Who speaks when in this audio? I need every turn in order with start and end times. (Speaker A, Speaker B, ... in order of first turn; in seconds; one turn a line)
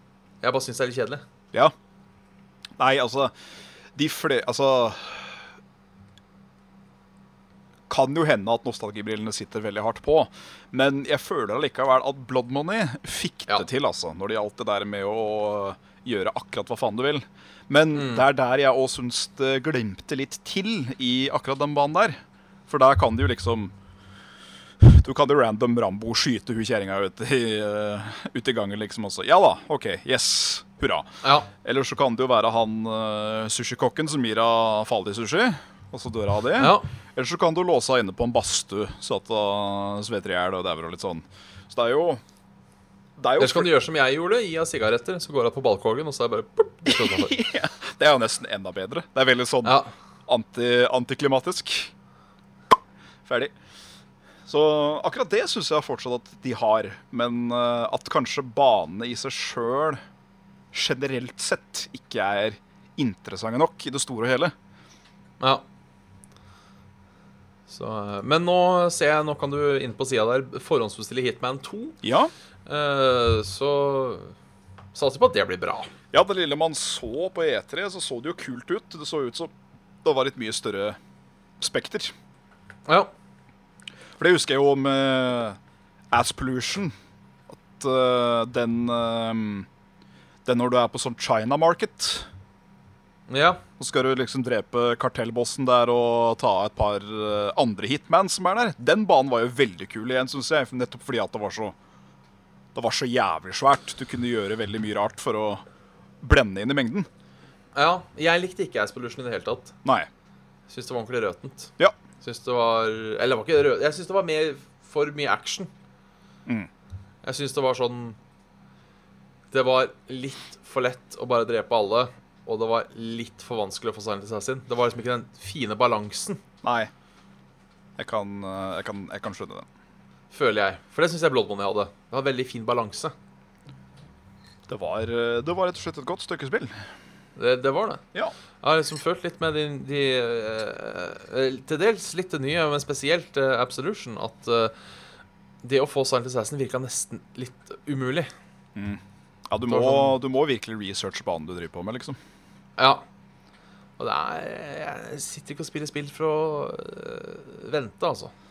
Speaker A: 0.4-1.2
Speaker B: 2.8-3.3
Speaker B: 4.0-5.4
Speaker B: 7.9-22.2
Speaker A: 17.9-18.2
Speaker B: 22.7-23.7
Speaker B: 24.8-31.1
Speaker A: 31.2-31.5
Speaker B: 31.6-42.2
Speaker A: 36.6-36.9
Speaker B: 43.2-43.7
Speaker A: 43.4-47.4
Speaker B: 46.9-51.9
Speaker A: 49.6-49.9
Speaker B: 53.2-53.5
Speaker B: 54.5-60.0
Speaker B: 60.7-64.5
Speaker A: 67.7-72.0
Speaker B: 72.0-72.3
Speaker A: 72.7-74.3
Speaker A: 74.9-75.9
Speaker B: 76.1-79.5
Speaker B: 80.0-81.0
Speaker B: 81.6-82.1
Speaker B: 84.2-85.6
Speaker B: 86.1-86.9
Speaker B: 87.5-89.7
Speaker B: 90.4-92.3
Speaker A: 93.3-93.6
Speaker B: 93.8-101.8
Speaker B: 102.7-105.6
Speaker B: 106.2-107.1
Speaker A: 107.7-109.7
Speaker B: 109.8-110.1
Speaker A: 110.7-115.7
Speaker A: 117.2-118.2
Speaker A: 119.5-126.4
Speaker B: 126.6-126.9
Speaker B: 128.0-129.7
Speaker A: 130.3-133.1
Speaker B: 134.7-136.7
Speaker A: 137.4-138.0
Speaker A: 138.6-144.7
Speaker A: 145.6-148.3
Speaker B: 148.8-152.2
Speaker A: 149.7-150.2
Speaker A: 152.8-153.0
Speaker A: 154.0-158.3